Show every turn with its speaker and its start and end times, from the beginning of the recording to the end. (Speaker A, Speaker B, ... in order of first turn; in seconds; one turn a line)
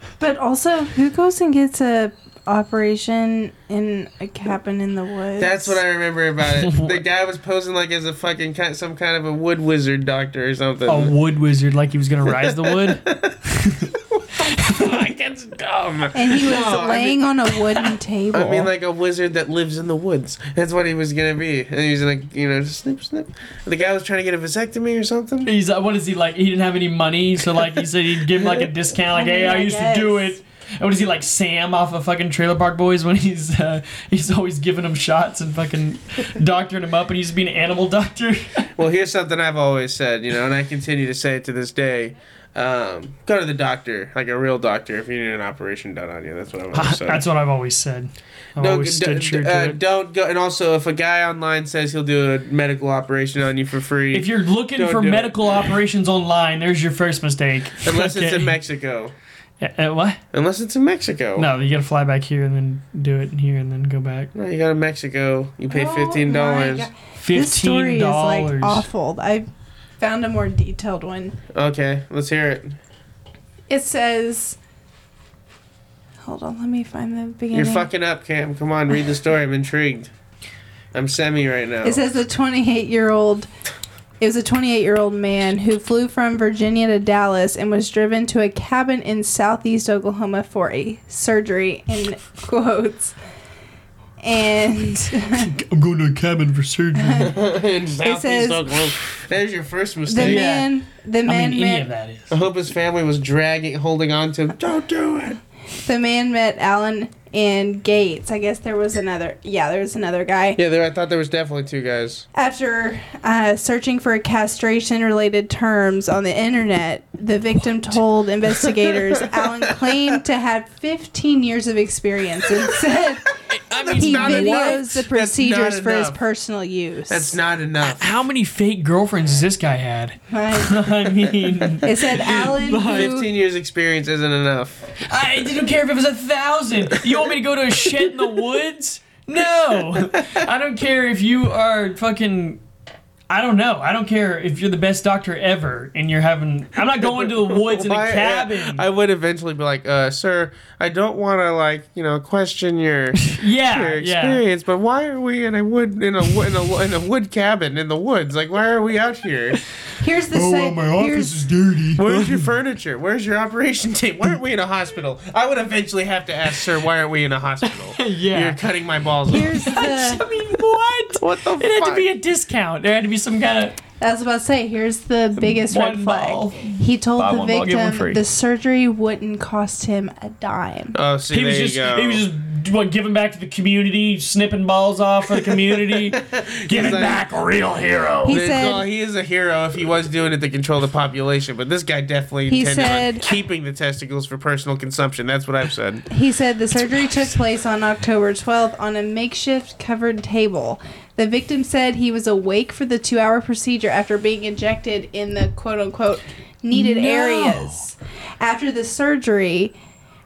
Speaker A: 0.2-5.8
Speaker B: 5.4-11.1
Speaker C: 6.5-7.0
Speaker C: 10.8-13.9
Speaker B: 12.4-13.4
Speaker B: 14.1-17.2
Speaker A: 16.1-18.6
Speaker B: 18.3-25.5
Speaker C: 25.4-38.6
Speaker B: 28.4-28.7
Speaker A: 29.1-30.4
Speaker B: 38.8-47.2
Speaker C: 46.7-49.8
Speaker B: 48.6-55.3
Speaker C: 54.1-58.5
Speaker B: 57.8-59.1
Speaker C: 59.6-60.2
Speaker B: 60.3-61.5
Speaker C: 61.4-64.3
Speaker B: 64.3-66.9
Speaker A: 65.7-69.5
Speaker C: 67.2-68.9
Speaker A: 70.0-71.3
Speaker B: 71.5-72.8
Speaker A: 73.7-74.6
Speaker A: 76.2-77.9
Speaker B: 77.5-80.1
Speaker B: 80.9-82.0
Speaker A: 81.8-83.5
Speaker A: 84.2-93.1
Speaker A: 94.2-95.5
Speaker C: 95.3-97.3
Speaker A: 96.9-97.4
Speaker B: 97.2-100.5
Speaker A: 98.0-98.9
Speaker A: 100.1-101.9
Speaker C: 100.2-100.7
Speaker C: 101.2-102.4
Speaker B: 102.3-105.4
Speaker A: 105.8-110.6
Speaker B: 110.5-112.2
Speaker A: 112.3-123.4
Speaker B: 119.1-120.2
Speaker C: 123.5-124.8
Speaker B: 123.7-126.2
Speaker A: 123.9-127.4
Speaker B: 127.1-128.1
Speaker C: 127.8-133.2
Speaker A: 130.3-130.9
Speaker A: 131.8-133.3
Speaker B: 132.7-134.9
Speaker C: 135.0-142.6
Speaker C: 143.3-148.8
Speaker B: 147.2-159.6
Speaker C: 153.3-154.4
Speaker A: 160.0-161.4
Speaker C: 160.3-162.5
Speaker B: 161.9-169.7
Speaker C: 167.6-168.6
Speaker A: 169.3-170.2
Speaker C: 169.3-173.8
Speaker B: 171.2-172.1
Speaker A: 174.0-180.9
Speaker C: 175.3-178.2
Speaker B: 180.9-182.2
Speaker C: 181.3-188.4
Speaker B: 185.8-187.2
Speaker A: 188.2-188.8
Speaker B: 188.2-196.1
Speaker A: 192.5-193.2
Speaker A: 196.1-209.7
Speaker C: 206.7-207.8